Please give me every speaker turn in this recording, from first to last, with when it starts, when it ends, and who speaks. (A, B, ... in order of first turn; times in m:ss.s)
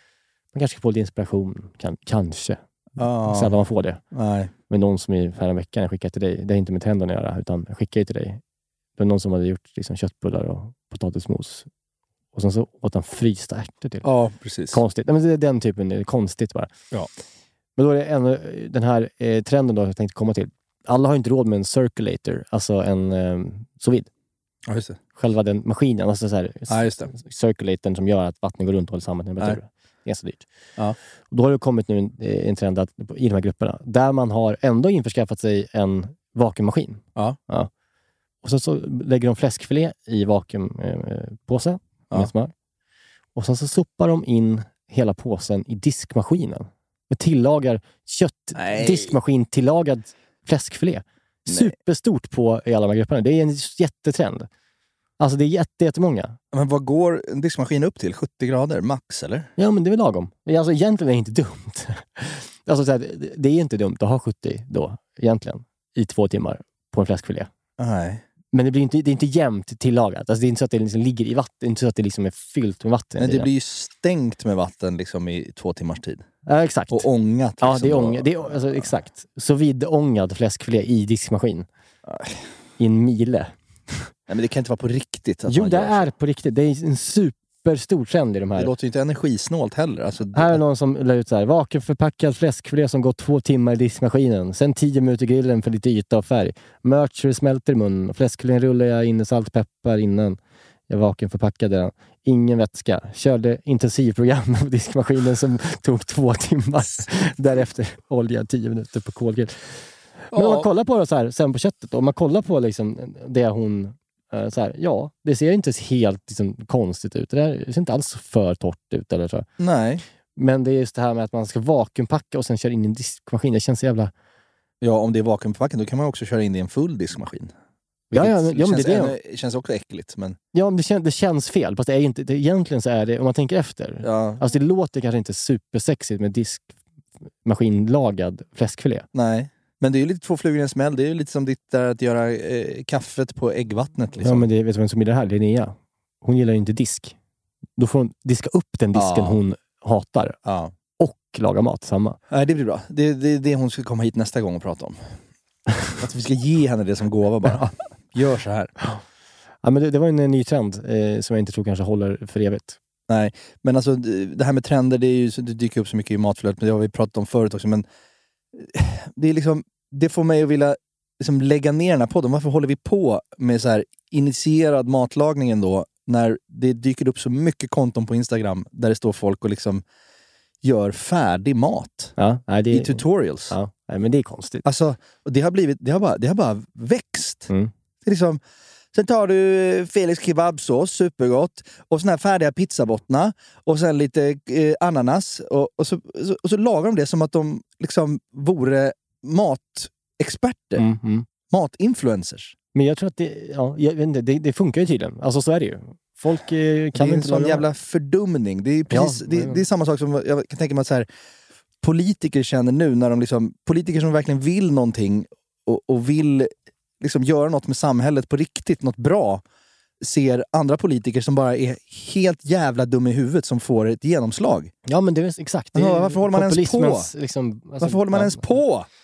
0:00.5-0:02.6 A
0:03.0-0:03.6 B
0:03.1-0:04.0 A
0:04.1-0:04.5 B
0:04.7-0:08.4 A
0:09.0-0:11.7 A
0:12.3-0:14.1 A
0:14.0-0:14.8 B
0:14.7-0:16.7 A
0:17.8-0:24.1 A
0:24.7-0:25.0 B
0:25.2-0:30.5 A
0:26.7-0:27.1 B
0:31.3-0:37.7 A
0:38.4-0:42.5 A
0:43.4-0:54.5 A
0:48.6-0:49.2 B
0:51.5-0:51.7 B
0:55.2-0:56.4 A
0:56.5-0:59.5 B
0:59.6-1:07.5 A
1:07.8-1:08.2 B
1:08.5-1:13.5 A
1:13.2-1:16.2 B
1:16.5-1:17.1 A
1:16.9-1:18.9 B
1:17.6-1:21.7 A
1:22.1-1:22.4 B
1:22.8-1:24.1 A
1:24.3-1:26.1 B
1:25.5-1:28.7 A
1:28.6-1:30.6 B
1:30.3-1:40.4 A
1:40.9-1:59.5 A
1:50.3-1:50.7 B
1:59.6-2:00.0 B
2:00.4-2:04.1 A
2:04.8-2:07.5 B
2:08.1-2:09.2 A
2:08.1-2:10.4 B
2:10.5-2:16.7 A
2:14.0-2:14.4 B
2:17.4-2:19.1 A
2:19.1-2:24.5 B
2:24.2-2:27.2 A
2:27.8-2:30.4 A
2:28.9-2:29.4 B
2:30.4-2:30.7 B
2:31.0-2:32.2 A
2:32.3-2:35.0 B
2:36.0-2:38.8 B
2:39.6-2:42.8 A
2:43.1-2:47.9 B
2:48.5-2:59.8 B
3:00.6-3:02.1 B
3:02.2-3:04.6 A
3:02.7-3:03.6 B
3:04.6-3:07.5 B
3:08.0-3:08.4 B
3:08.9-3:20.9 B
3:20.8-3:21.3 A
3:21.5-3:22.5 B
3:22.8-3:27.6 A
3:27.0-3:31.1 B
3:28.9-3:29.6 A
3:31.8-3:39.4 B
3:40.0-3:44.7 B
3:44.9-3:48.6 A
3:45.7-3:47.1 B
3:47.8-3:48.9 B